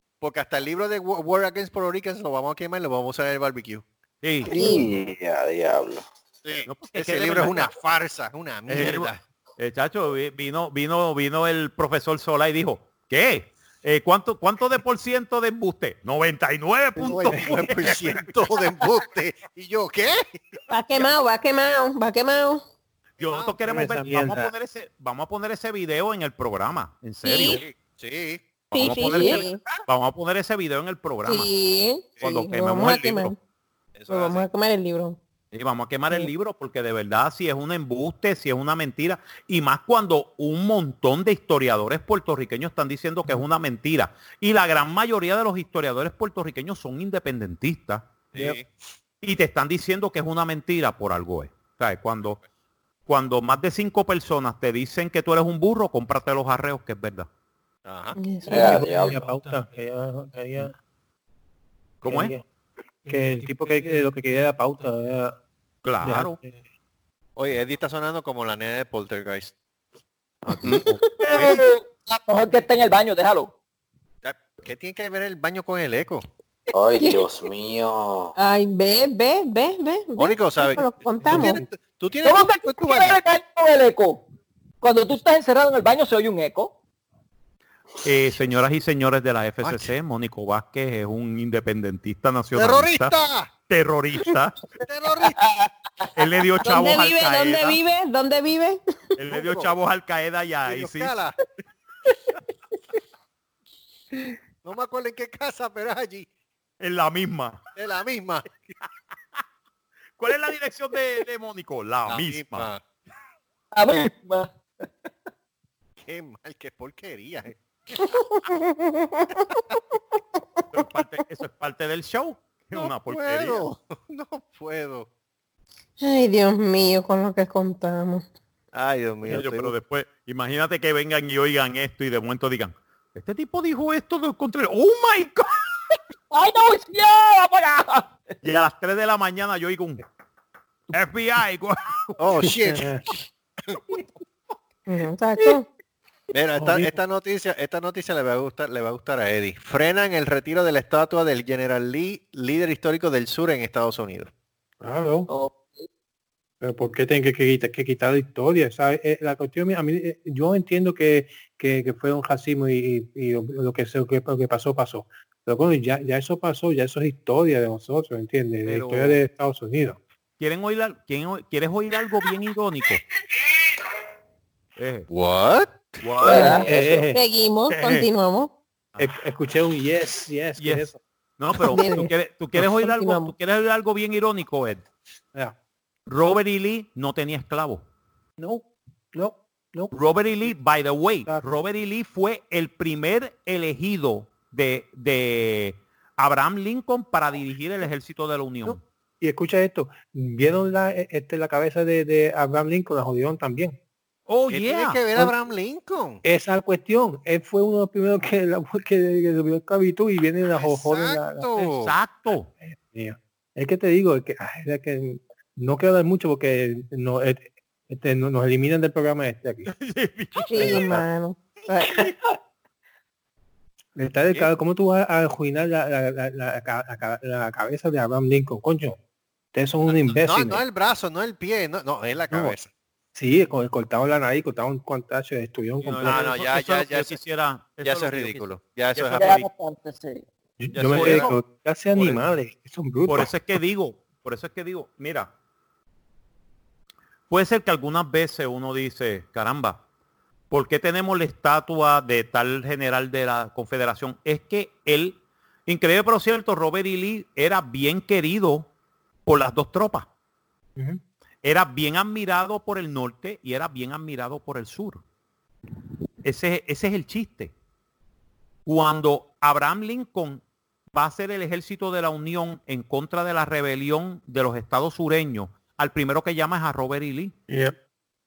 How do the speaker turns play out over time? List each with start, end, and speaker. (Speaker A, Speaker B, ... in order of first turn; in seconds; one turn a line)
Speaker A: 0.2-3.8
Speaker B: 4.2-4.5
Speaker C: 4.5-6.0
Speaker D: 4.5-4.9
Speaker A: 6.4-9.2
Speaker B: 6.7-7.7
Speaker B: 8.7-18.5
Speaker E: 17.0-18.1
Speaker A: 17.3-20.6
Speaker D: 20.7-22.6
Speaker A: 23.2-23.9
Speaker B: 23.2-27.6
Speaker E: 23.7-24.5
Speaker D: 27.2-27.6
Speaker A: 27.4-29.8
Speaker B: 28.7-31.5
Speaker D: 28.7-29.6
Speaker D: 31.2-33.4
Speaker B: 32.2-33.3
Speaker A: 33.9-34.5
Speaker D: 34.1-35.2
Speaker B: 35.5-48.5
Speaker A: 48.3-48.6
Speaker B: 49.2-52.4
Speaker B: 53.1-57.3
Speaker A: 57.8-58.2
Speaker D: 58.1-58.9
Speaker F: 58.5-59.2
Speaker E: 58.5-60.7
Speaker B: 62.0-62.4
Speaker E: 62.0-62.4
Speaker E: 63.1-65.4
Speaker B: 65.8-66.4
Speaker E: 66.0-66.6
Speaker A: 67.3-69.5
Speaker D: 70.7-71.5
Speaker G: 71.2-73.5
Speaker A: 74.2-76.2
Speaker F: 76.7-78.3
Speaker D: 77.0-77.3
Speaker D: 78.4-81.6
Speaker A: 80.2-83.2
Speaker E: 81.3-81.6
Speaker G: 82.2-84.2
Speaker G: 84.8-86.7
Speaker B: 88.0-93.1
Speaker A: 89.6-89.9
Speaker A: 92.5-93.5
Speaker B: 93.7-94.5
Speaker A: 94.8-95.4
Speaker C: 95.2-95.7
Speaker B: 96.2-97.8
Speaker D: 96.6-98.8
Speaker B: 99.2-101.2
Speaker A: 99.3-99.7
Speaker A: 100.6-101.4
Speaker D: 102.1-102.4
Speaker A: 104.6-106.2
Speaker B: 106.8-107.6
Speaker A: 107.8-108.5
Speaker B: 110.2-112.7
Speaker A: 112.1-112.8
Speaker G: 113.7-114.5
Speaker A: 116.0-117.6
Speaker D: 117.9-120.6
Speaker B: 120.7-123.7
Speaker A: 122.7-125.1
Speaker D: 126.0-128.2
Speaker A: 128.7-129.7
Speaker B: 129.3-135.5
Speaker G: 136.3-138.1
Speaker B: 138.4-140.0
Speaker B: 140.9-142.2
Speaker A: 142.2-143.0
Speaker E: 142.4-143.1
Speaker D: 144.9-145.6
Speaker A: 146.3-154.3
Speaker E: 146.6-146.9
Speaker E: 154.8-155.3
Speaker E: 156.6-170.0
Speaker B: 168.6-169.2
Speaker B: 170.4-173.0
Speaker B: 174.8-175.1
Speaker A: 175.1-176.0
Speaker B: 176.0-176.6
Speaker E: 176.3-177.2
Speaker F: 176.3-176.7
Speaker D: 176.6-178.5
Speaker B: 177.7-178.1
Speaker E: 179.0-181.0
Speaker B: 180.6-184.8
Speaker D: 181.7-183.3
Speaker B: 186.1-187.8
Speaker E: 188.4-189.9
Speaker B: 189.9-198.8
Speaker E: 191.2-191.5
Speaker E: 198.7-203.8
Speaker B: 204.3-205.0
Speaker A: 204.5-206.2
Speaker E: 206.2-211.7
Speaker A: 210.5-211.9
Speaker B: 211.6-212.5
Speaker E: 212.6-219.7
Speaker B: 219.7-221.0
Speaker D: 220.5-222.1
Speaker E: 220.6-221.0
Speaker E: 224.0-229.0
Speaker E: 229.5-230.6
Speaker A: 229.9-232.7
Speaker E: 232.3-232.6
Speaker E: 233.2-236.3
Speaker B: 235.8-239.4
Speaker A: 236.1-237.2
Speaker A: 237.8-239.4
Speaker G: 239.2-240.2
Speaker E: 240.6-243.3
Speaker A: 240.7-241.3
Speaker B: 240.9-241.4
Speaker B: 243.1-245.3
Speaker B: 247.3-249.8
Speaker B: 250.5-258.7
Speaker B: 259.2-260.1
Speaker B: 261.4-265.0
Speaker B: 266.2-267.5
Speaker B: 268.6-277.4
Speaker E: 277.5-277.7